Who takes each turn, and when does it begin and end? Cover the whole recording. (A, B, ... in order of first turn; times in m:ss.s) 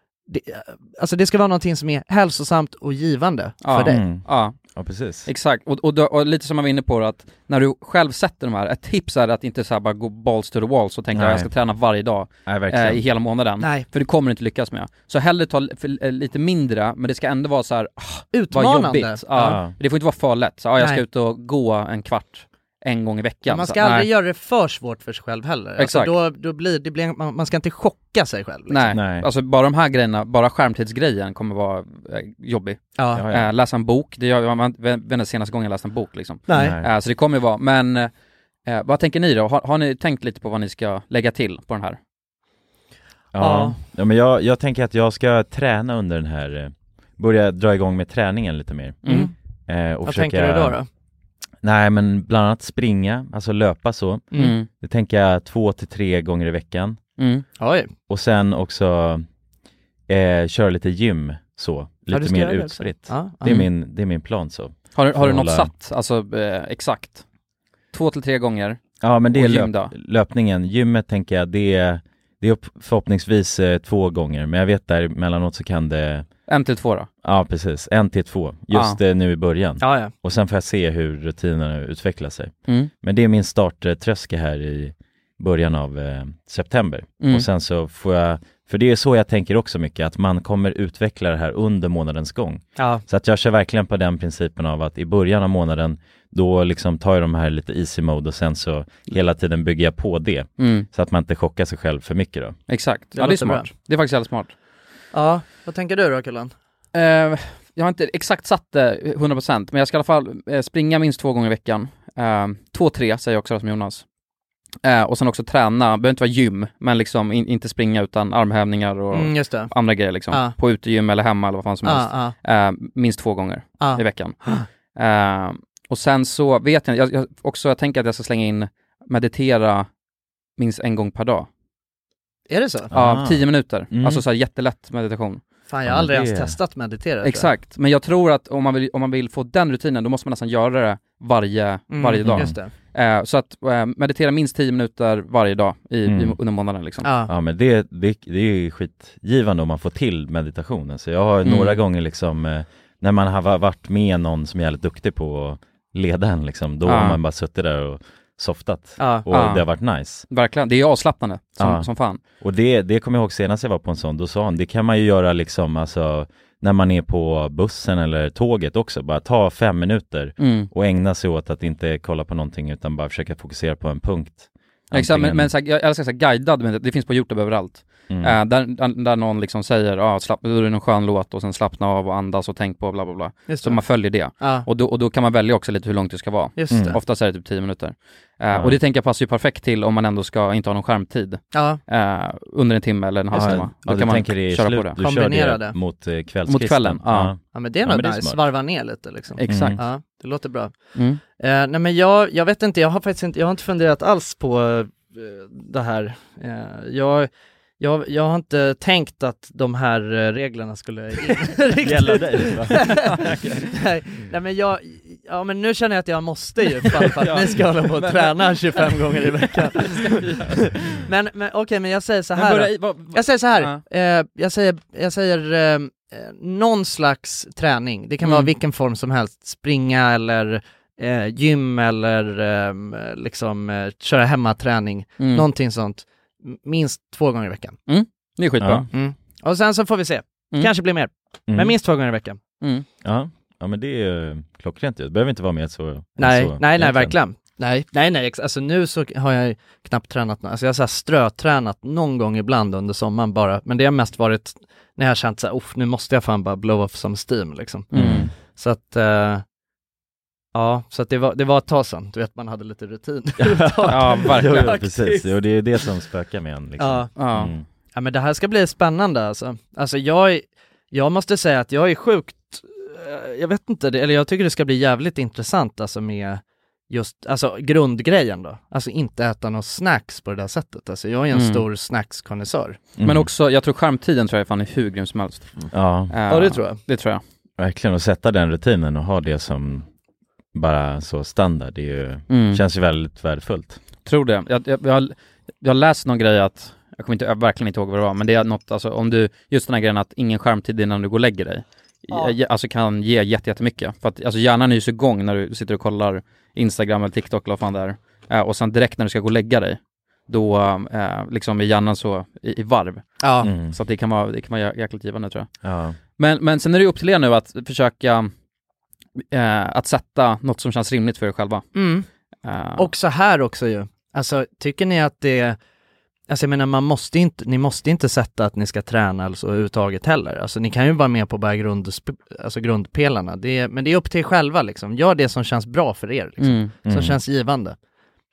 0:00.3-0:04.0 A
0:03.6-0:04.6 B
0:03.9-0:05.3 C
0:05.3-0:24.1 B
0:11.1-0:11.5 C
0:12.5-0:13.0 C
0:13.6-0:13.9 A
0:18.3-0:19.6 A
0:19.4-0:19.7 C
0:23.5-0:28.9 A
0:25.8-0:26.1 B
0:28.7-0:38.1 B
0:28.9-0:29.3 C
0:33.0-0:33.2 A
0:33.1-0:33.5 C
0:36.5-0:36.8 A
0:36.6-0:36.9 C
0:38.7-0:42.0 B
0:43.4-0:49.0 C
0:43.4-0:43.8 A
0:49.0-0:49.3 B
0:49.0-0:49.3 A
0:49.7-0:50.8 C
0:50.0-0:50.9 A
0:51.6-0:57.0 C
0:54.3-0:54.7 B
0:57.2-0:57.4 B
0:57.6-0:57.9 A
0:58.1-0:59.3 C
1:00.1-1:05.7 C
1:02.1-1:03.7 A
1:05.0-1:07.2 B
1:07.9-1:09.9 B
1:09.0-1:16.3 C
1:16.5-1:17.1 B
1:17.2-1:42.6 C
1:18.7-1:19.0 B
1:19.8-1:20.1 A
1:27.2-1:27.5 B
1:32.8-1:33.0 A
1:40.6-1:40.9 B
1:42.7-1:44.5 B
1:43.2-1:43.7 A
1:45.1-1:46.5 A
1:46.9-1:54.0 B
1:54.8-2:04.4 B
1:59.1-1:59.7 A
2:01.8-2:02.4 A
2:03.8-2:04.7 A
2:04.9-2:09.9 B
2:10.6-2:11.5 B
2:12.5-2:12.9 A
2:12.9-2:14.2 C
2:12.9-2:15.4 B
2:15.7-2:17.5 A
2:15.9-2:16.6 C
2:17.2-2:27.1 B
2:21.9-2:22.7 A
2:22.3-2:22.6 C
2:26.1-2:26.4 C
2:27.0-2:27.3 A
2:27.3-2:40.3 C
2:31.4-2:31.8 B
2:36.8-2:37.2 B
2:39.0-2:39.3 A
2:39.3-2:39.6 B
2:40.3-2:42.2 B
2:41.6-2:55.5 C
2:50.4-2:50.7 B
2:54.9-3:15.0 B
2:58.1-2:58.4 C
3:03.5-3:03.8 A
3:04.3-3:04.7 A
3:06.6-3:07.0 A
3:06.7-3:07.0 C
3:08.5-3:08.8 C
3:11.5-3:11.8 A
3:13.3-3:18.4 C
3:15.0-3:15.8 A
3:16.5-3:17.3 B
3:17.5-3:20.7 A
3:19.4-3:19.8 B
3:19.5-3:19.8 C
3:21.0-3:21.2 B
3:21.3-3:27.3 A
3:27.8-3:57.8 A
3:31.8-3:33.2 C
3:32.8-3:33.7 B
3:37.2-3:38.5 B
3:39.8-3:40.6 B
3:42.4-3:43.8 B
3:48.2-3:48.5 B
3:55.2-3:55.4 B
3:57.9-3:58.9 B
3:58.6-3:58.9 C
3:58.9-4:02.4 A
4:01.5-4:01.7 C
4:02.6-4:02.9 B
4:03.0-4:07.1 C
4:06.2-4:19.4 A
4:17.9-4:18.3 B
4:17.9-4:18.3 C
4:20.6-4:25.3 A
4:23.4-4:27.6 C
4:23.9-4:24.7 B
4:26.8-4:27.1 A
4:27.2-4:27.5 B
4:27.9-4:42.8 A
4:41.3-4:41.6 B
4:43.0-4:43.3 C
4:43.0-4:47.2 B
4:45.7-4:46.1 C
4:46.3-4:46.8 A
4:47.6-4:49.9 C
4:50.5-4:53.8 C
4:52.3-4:52.6 B
4:54.0-5:15.5 B
5:13.2-5:13.5 A
5:13.4-5:13.8 C
5:15.6-5:16.0 C
5:16.2-5:18.3 B
5:19.3-5:21.7 B
5:21.7-5:22.1 A
5:22.4-5:22.9 B
5:22.8-5:25.6 A
5:26.3-5:37.8 A
5:36.4-5:36.7 B
5:36.9-5:37.2 C